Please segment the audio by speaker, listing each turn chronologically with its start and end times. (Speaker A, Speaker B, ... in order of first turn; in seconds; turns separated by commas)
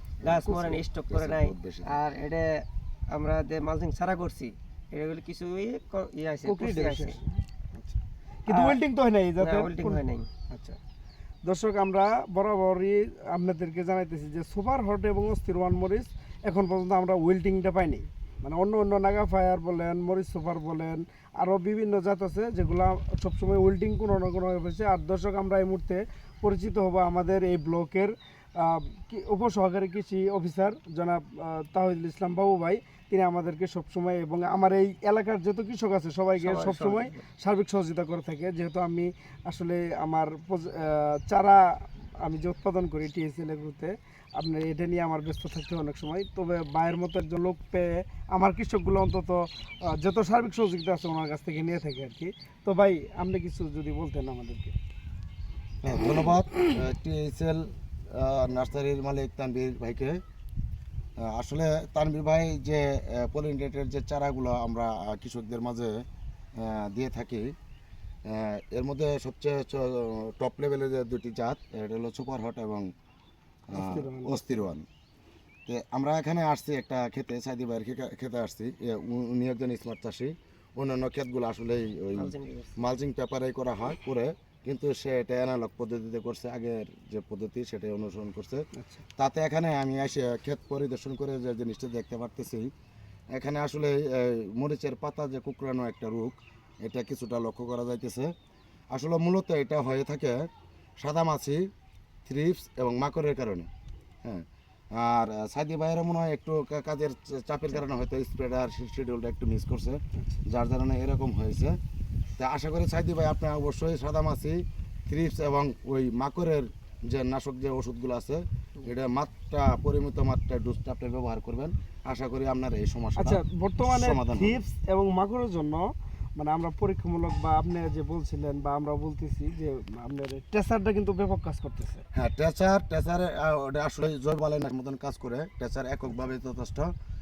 Speaker A: 0.2-2.0, Speaker B: 0.2-7.2, Speaker C: 6.4-10.8, Speaker B: 8.5-8.8, Speaker B: 9.4-10.3, Speaker C: 11.4-54.8, Speaker B: 36.4-37.2, Speaker A: 55.8-60.2, Speaker A: 61.2-66.0, Speaker A: 66.6-67.5, Speaker A: 68.3-72.9, Speaker A: 73.7-74.9, Speaker C: 73.7-74.6, Speaker A: 75.7-88.7, Speaker B: 82.1-82.8, Speaker C: 88.8-89.0, Speaker A: 89.2-92.7, Speaker A: 93.3-98.3, Speaker A: 98.9-100.5, Speaker A: 101.0-101.7, Speaker A: 102.3-103.7, Speaker A: 104.2-111.8, Speaker A: 112.4-124.6, Speaker C: 123.2-132.1, Speaker A: 132.2-136.9